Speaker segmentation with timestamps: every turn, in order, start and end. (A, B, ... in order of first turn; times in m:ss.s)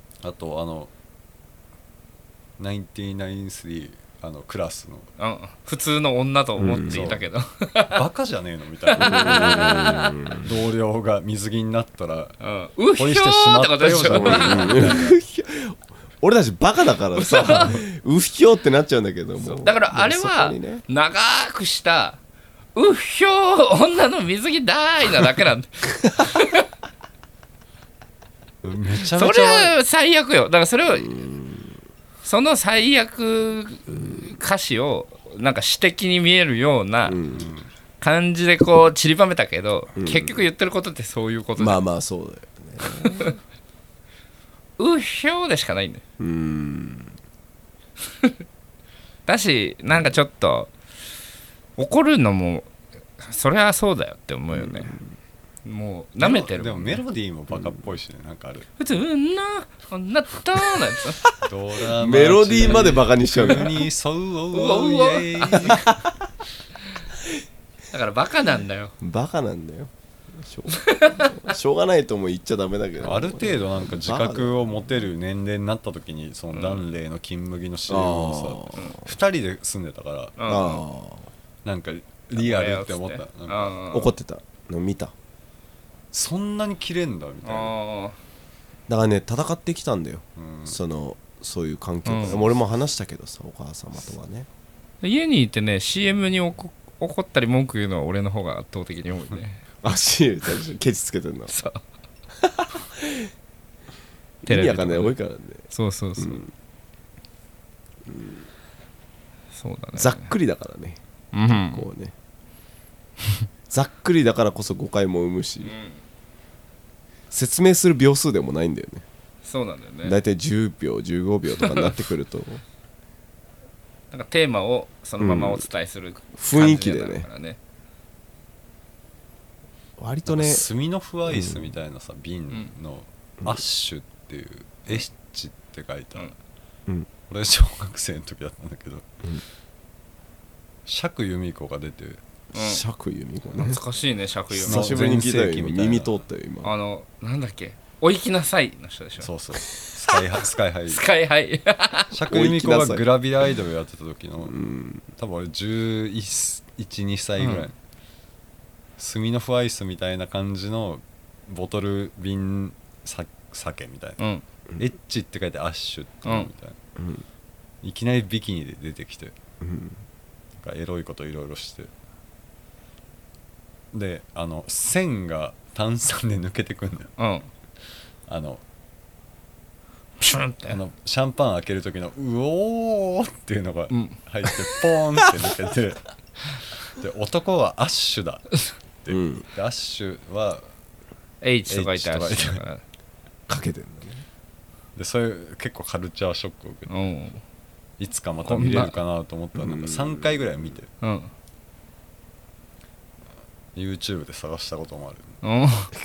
0:00.2-0:00.9 A
0:02.6-0:05.1 A
0:05.2-0:08.0 B
0:06.6-0:07.1 C
0:06.9-0:07.3 A
0:07.9-0:12.4 A
0:09.0-0:10.0 B
0:09.0-0:10.5 C
0:12.4-0:14.9 B
0:13.0-0:15.1 A
0:14.1-0:20.8 C
0:17.2-0:17.8 B
0:19.4-0:22.2 B
0:22.8-0:26.6 B
0:28.6-0:29.8 A
0:29.2-0:31.2 B
0:30.9-0:31.8 C
0:32.2-0:37.2 B
0:33.9-0:34.3 C
0:37.0-0:37.5 C
0:37.3-0:37.7 A
0:38.0-0:41.8 B
0:40.0-0:40.5 C
0:41.6-0:43.4 C
0:44.8-0:46.0 B
0:46.2-0:47.2 C
0:49.3-0:50.7 B
0:51.8-0:54.9 B
0:54.6-0:55.0 C
0:55.6-0:57.0 B
0:56.2-0:58.7 A
0:58.8-1:01.2 B
1:01.4-1:05.9 A
1:02.0-1:03.8 C
1:04.5-1:05.8 B
1:07.9-1:08.9 B
1:09.0-1:15.1 C
1:10.9-1:11.3 B
1:13.0-1:20.4 A
1:16.5-1:16.9 B
1:17.9-1:19.1 C
1:20.4-1:20.8 B
1:20.4-1:21.3 C
1:21.6-1:23.8 A
1:22.3-1:24.2 B
1:23.9-1:25.1 C
1:26.1-1:27.8 A
1:27.4-1:28.2 B
1:28.9-1:34.5 C
1:30.4-1:30.8 A
1:32.1-1:32.5 B
1:35.0-1:39.6 B
1:39.8-1:41.5 C
1:41.5-1:41.8 B
1:42.4-1:43.3 C
1:44.4-1:45.6 C
1:44.5-1:45.2 B
1:45.7-1:46.4 B
1:46.2-1:46.5 C
1:48.1-1:48.4 C
1:49.5-1:50.3 B
1:50.0-1:52.1 C
1:51.3-1:51.9 B
1:53.7-1:55.7 C
1:55.6-1:56.0 B
1:57.3-1:59.0 C
1:59.4-2:00.2 B
2:00.0-2:02.6 C
2:01.6-2:01.9 B
2:04.1-2:07.6 B
2:05.2-2:05.6 C
2:06.4-2:07.3 C
2:10.0-2:10.7 C
2:10.3-2:16.3 A
2:11.3-2:11.7 C
2:17.3-2:19.1 A
2:20.9-2:22.2 A
2:22.5-2:22.8 B
2:22.5-2:23.8 C
2:23.6-2:25.1 B
2:24.5-2:26.7 C
2:24.6-2:26.2 A
2:26.6-2:29.3 B
2:29.2-2:31.0 A
2:30.9-2:32.1 B
2:32.1-2:34.6 A
2:32.3-2:33.0 C
2:34.5-2:35.1 C
2:35.2-2:37.8 A
2:37.4-2:37.7 B
2:39.0-2:44.2 A
2:44.2-2:44.4 B
2:44.8-2:46.8 A
2:46.2-2:46.5 B
2:47.0-2:47.2 C
2:47.8-2:49.4 A
2:49.6-2:50.0 C
2:50.6-2:51.9 A
2:53.9-2:57.1 A
2:57.2-2:57.5 B
2:58.3-2:58.6 A
3:00.2-3:00.8 B
3:00.7-3:06.1 A
3:03.9-3:04.2 B
3:06.8-3:10.6 A
3:09.1-3:09.5 C
3:11.4-3:12.8 B
3:11.7-3:12.6 A
3:13.5-3:14.2 C
3:15.0-3:16.9 A
3:16.9-3:17.4 B
3:18.0-3:20.9 A
3:18.4-3:19.0 B
3:19.6-3:20.8 C
3:21.0-3:21.3 B
3:23.8-3:25.4 A
3:25.4-3:25.9 B